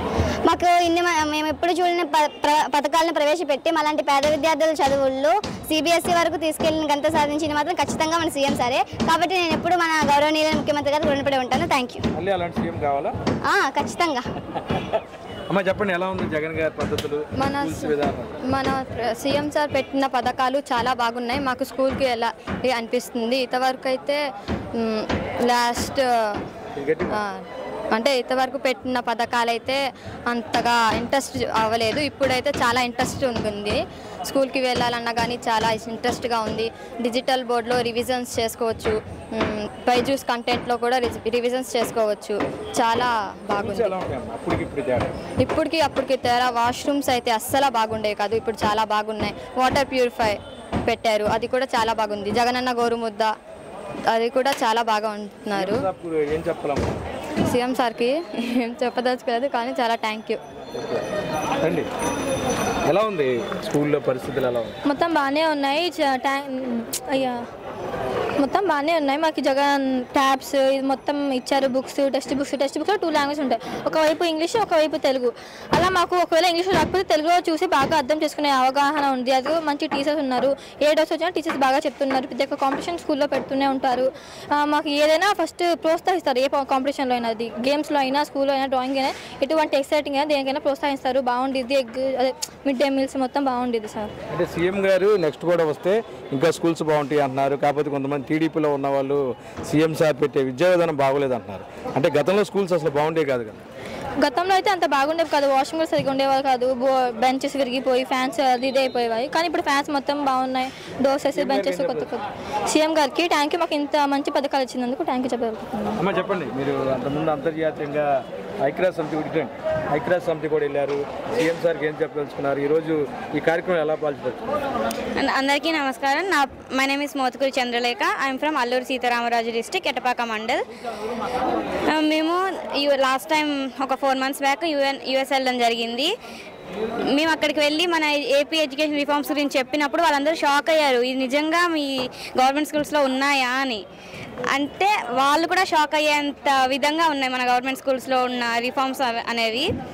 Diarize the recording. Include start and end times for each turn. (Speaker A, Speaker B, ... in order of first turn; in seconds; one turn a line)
Speaker A: 0.5-12.0
Speaker B: 12.2-13.1
Speaker A: 13.4-14.2
Speaker B: 15.5-18.4
Speaker C: 17.4-17.9
Speaker C: 18.5-24.2
Speaker C: 24.8-26.1
Speaker B: 26.8-27.2
Speaker C: 27.1-29.8
Speaker C: 30.3-44.0
Speaker B: 43.5-45.1
Speaker C: 45.4-53.3
Speaker C: 54.1-55.9
Speaker B: 55.5-56.9
Speaker C: 57.5-60.4
Speaker B: 60.8-61.0
Speaker B: 61.6-61.9
Speaker B: 62.9-64.8
Speaker D: 64.9-67.4
Speaker D: 68.4-94.1
Speaker B: 94.3-103.6
Speaker D: 104.2-116.0
Speaker B: 111.3-112.1
Speaker B: 116.0-118.1
Speaker B: 118.6-124.4
Speaker E: 125.2-130.6
Speaker E: 131.9-136.1
Speaker E: 137.2-143.8
Speaker E: 144.5-149.7